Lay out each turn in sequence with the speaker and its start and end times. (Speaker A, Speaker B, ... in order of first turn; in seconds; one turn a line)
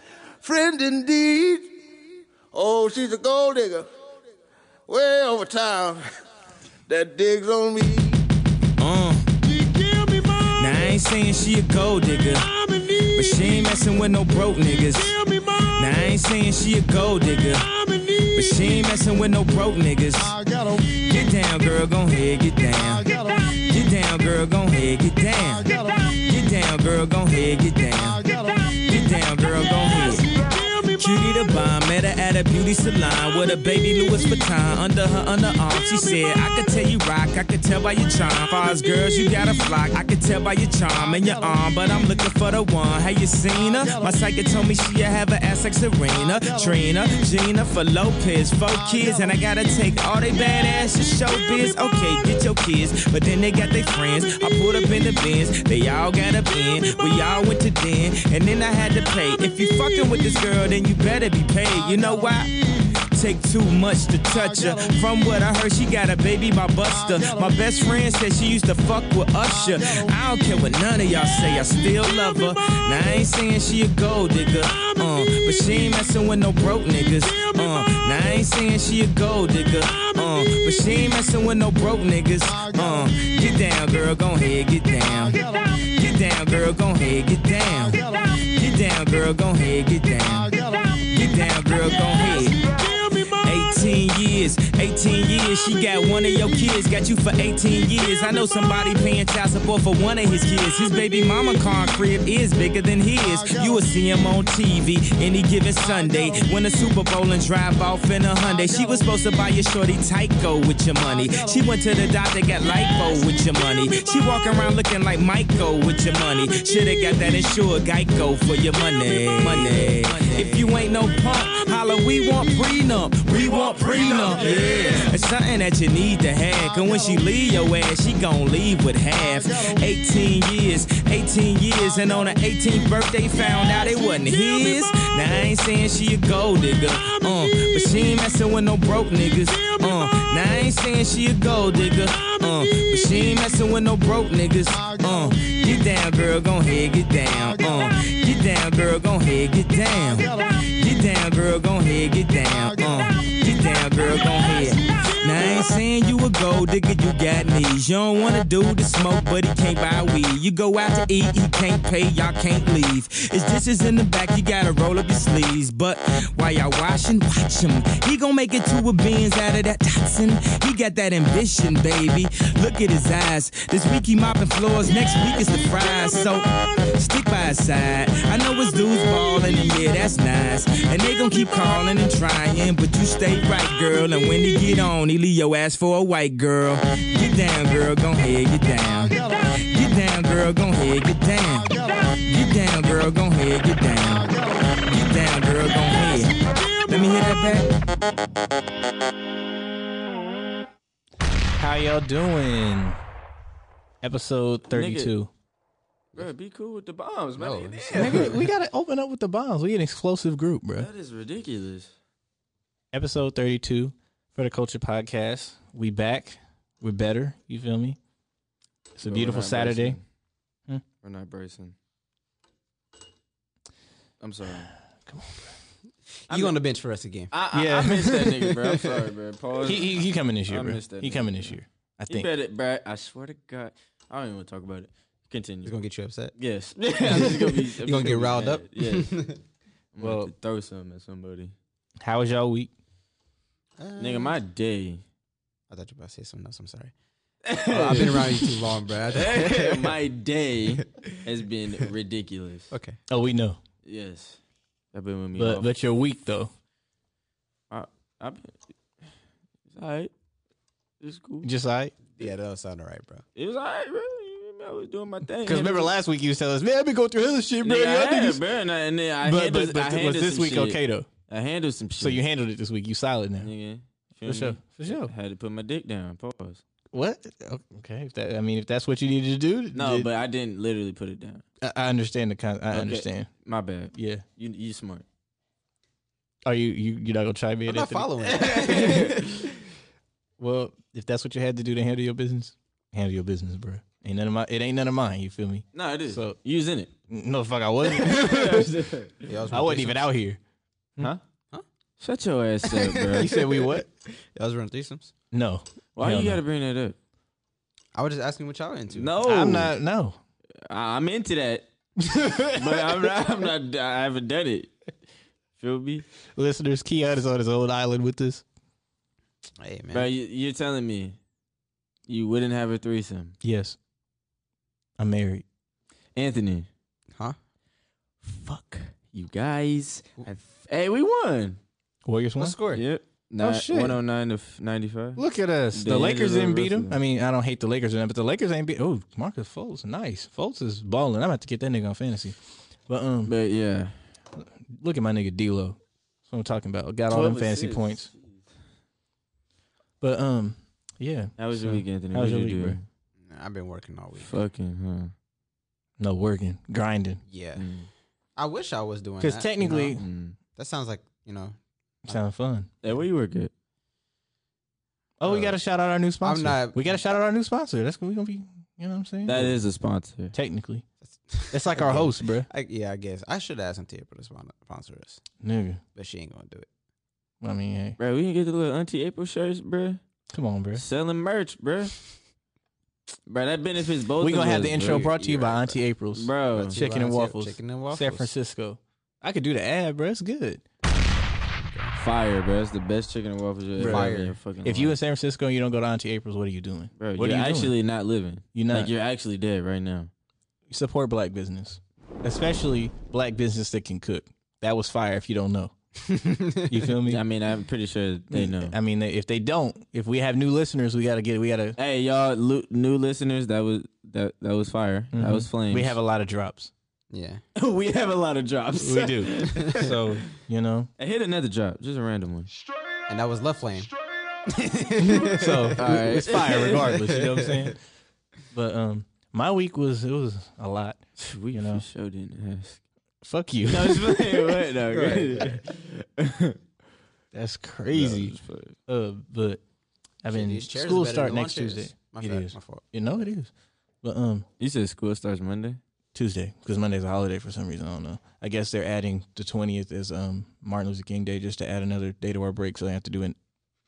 Speaker A: 0.4-1.8
Speaker A: 2.5-3.9
Speaker A: 4.9-6.0
Speaker A: 6.9-8.2
Speaker B: 8.8-9.3
Speaker A: 9.6-10.4
Speaker B: 10.5-62.6
Speaker B: 63.1-197.7
Speaker C: 123.9-125.0
Speaker D: 201.6-203.0
Speaker D: 204.0-205.3
Speaker C: 204.7-205.1
Speaker C: 206.2-208.4
Speaker E: 207.4-208.4
Speaker D: 207.9-210.9
Speaker C: 210.8-211.9
Speaker D: 212.9-218.0
Speaker D: 219.0-220.0
Speaker C: 219.0-220.0
Speaker C: 221.0-221.8
Speaker C: 224.2-224.7
Speaker D: 225.1-225.5
Speaker E: 226.3-227.3
Speaker C: 226.3-226.6
Speaker C: 227.3-235.7
Speaker D: 227.5-228.4
Speaker D: 229.6-232.3
Speaker E: 235.6-236.3
Speaker C: 236.3-239.2
Speaker E: 237.1-239.4
Speaker C: 239.9-241.5
Speaker D: 240.0-240.3
Speaker D: 242.0-242.7
Speaker E: 243.8-244.3
Speaker C: 244.0-245.0
Speaker E: 245.7-246.9
Speaker C: 247.4-248.6
Speaker E: 247.6-249.9
Speaker C: 249.1-252.7
Speaker E: 252.7-253.0
Speaker D: 253.1-253.6
Speaker C: 253.8-254.4
Speaker C: 254.9-255.7
Speaker D: 255.3-256.5
Speaker C: 257.7-258.5
Speaker C: 259.7-260.1
Speaker C: 261.0-261.5
Speaker D: 261.4-261.9
Speaker E: 262.1-263.2
Speaker C: 263.4-265.9
Speaker D: 265.4-268.4
Speaker C: 267.6-272.2
Speaker D: 269.2-271.1
Speaker D: 272.0-273.5
Speaker C: 273.4-276.6
Speaker D: 274.2-275.1
Speaker D: 276.9-280.1
Speaker C: 279.7-281.4
Speaker D: 281.6-283.3
Speaker C: 282.7-285.0
Speaker D: 283.9-284.2
Speaker D: 286.4-289.1
Speaker E: 287.6-289.4
Speaker C: 288.2-289.3
Speaker D: 290.4-296.4
Speaker C: 295.7-296.9
Speaker D: 297.1-298.7
Speaker C: 297.9-299.3
Speaker E: 299.3-300.0
Speaker D: 299.5-300.4
Speaker C: 302.0-303.3
Speaker E: 302.6-305.1
Speaker D: 303.2-303.9
Speaker D: 305.3-306.4
Speaker C: 305.9-306.9
Speaker E: 307.9-309.1
Speaker C: 308.9-309.7
Speaker D: 309.2-310.2
Speaker C: 310.6-311.7
Speaker D: 312.0-313.1
Speaker C: 312.5-314.9
Speaker C: 315.6-316.1
Speaker D: 316.3-318.4
Speaker E: 319.6-320.1
Speaker C: 319.9-321.1
Speaker C: 322.1-323.3
Speaker D: 323.4-323.8
Speaker D: 325.0-325.4
Speaker C: 326.1-326.7
Speaker C: 328.3-331.6
Speaker D: 328.5-328.7
Speaker D: 332.0-332.6
Speaker E: 332.4-332.8
Speaker C: 332.7-337.0
Speaker D: 333.4-334.0
Speaker D: 335.1-343.3
Speaker C: 343.2-344.0
Speaker D: 344.4-348.1
Speaker C: 347.1-348.4
Speaker D: 350.0-352.8
Speaker C: 351.4-352.8
Speaker E: 353.2-354.3
Speaker C: 354.2-355.1
Speaker D: 356.0-357.2
Speaker E: 357.3-357.6
Speaker C: 357.6-357.9
Speaker E: 358.4-359.9
Speaker D: 359.2-360.0
Speaker C: 360.0-360.4
Speaker E: 360.5-361.6
Speaker D: 362.1-362.7
Speaker C: 362.8-363.5
Speaker D: 365.2-369.6
Speaker E: 365.2-365.6
Speaker E: 366.2-367.0
Speaker C: 369.2-370.3
Speaker D: 370.3-370.8
Speaker E: 371.1-375.2
Speaker D: 371.5-372.5
Speaker D: 375.4-375.8
Speaker E: 375.9-376.7
Speaker D: 377.4-378.0
Speaker C: 378.0-380.0
Speaker D: 380.3-380.8
Speaker C: 380.8-382.0
Speaker C: 383.3-386.8
Speaker D: 384.2-390.6
Speaker E: 386.5-388.3
Speaker E: 391.5-392.0
Speaker C: 391.9-395.0
Speaker D: 393.8-394.1
Speaker E: 393.8-394.4
Speaker D: 394.6-397.8
Speaker C: 397.0-400.1
Speaker D: 398.5-398.9
Speaker D: 400.7-405.7
Speaker E: 406.0-406.9
Speaker D: 406.7-407.2
Speaker C: 407.1-408.8
Speaker D: 408.3-411.8
Speaker C: 411.8-415.9
Speaker D: 415.1-416.7
Speaker E: 417.1-417.4
Speaker C: 417.6-420.0
Speaker D: 418.8-420.9
Speaker C: 421.0-422.5
Speaker E: 423.1-423.9
Speaker E: 424.5-425.8
Speaker D: 425.0-427.8
Speaker C: 425.8-426.9
Speaker E: 426.8-427.7
Speaker D: 428.5-431.8
Speaker C: 431.2-432.8
Speaker D: 433.2-434.4
Speaker C: 433.6-436.6
Speaker E: 434.9-435.6
Speaker D: 437.3-438.3
Speaker C: 437.9-438.8
Speaker D: 438.9-439.6
Speaker D: 440.2-444.4
Speaker E: 440.3-442.8
Speaker C: 444.6-445.8
Speaker D: 446.1-453.4